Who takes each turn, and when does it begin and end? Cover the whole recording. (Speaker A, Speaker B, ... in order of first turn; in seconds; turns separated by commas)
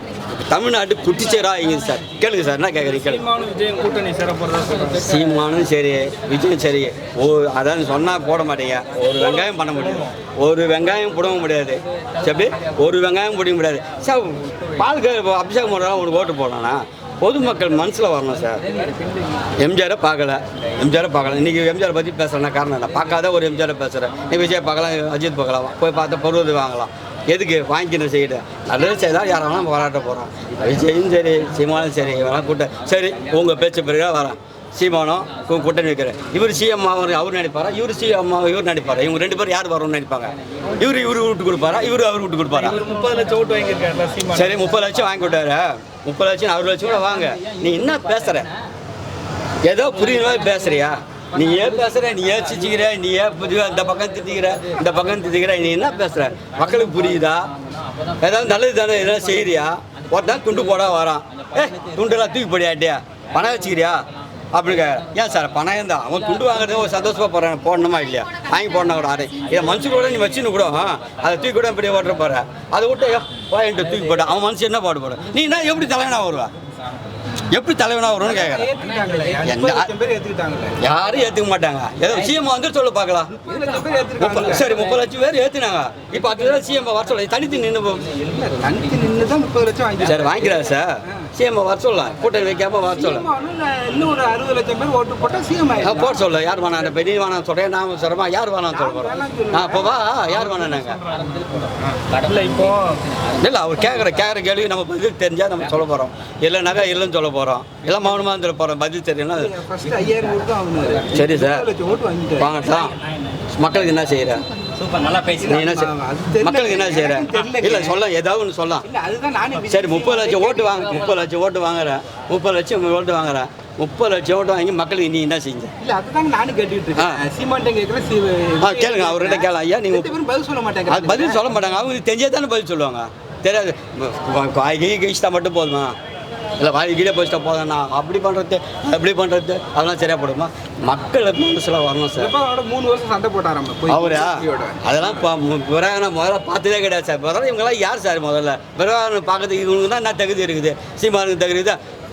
Speaker A: 0.3-3.2, Speaker B: 2.8-5.0, Speaker A: 5.0-18.6, Speaker A: 19.6-42.8, Speaker B: 42.5-44.6, Speaker A: 44.3-48.5, Speaker A: 49.6-57.5, Speaker A: 58.2-64.0, Speaker A: 64.5-76.5, Speaker A: 77.5-78.7, Speaker C: 78.2-80.8, Speaker A: 79.4-79.9, Speaker A: 80.8-83.3, Speaker C: 83.3-84.8, Speaker A: 84.2-88.1, Speaker C: 88.1-91.2, Speaker A: 90.0-93.2, Speaker C: 92.9-96.2, Speaker A: 95.8-101.0, Speaker C: 98.7-100.0, Speaker B: 101.6-103.1, Speaker A: 103.3-109.5, Speaker C: 109.3-112.7, Speaker A: 111.1-111.7, Speaker A: 112.4-112.9, Speaker A: 113.5-114.4, Speaker C: 114.7-118.0, Speaker A: 115.4-115.9, Speaker A: 116.4-118.8, Speaker C: 118.8-120.9, Speaker A: 119.7-125.7, Speaker C: 125.8-131.4, Speaker A: 128.6-130.1, Speaker A: 130.9-135.9, Speaker A: 136.6-142.3, Speaker C: 142.2-144.8, Speaker A: 143.9-151.8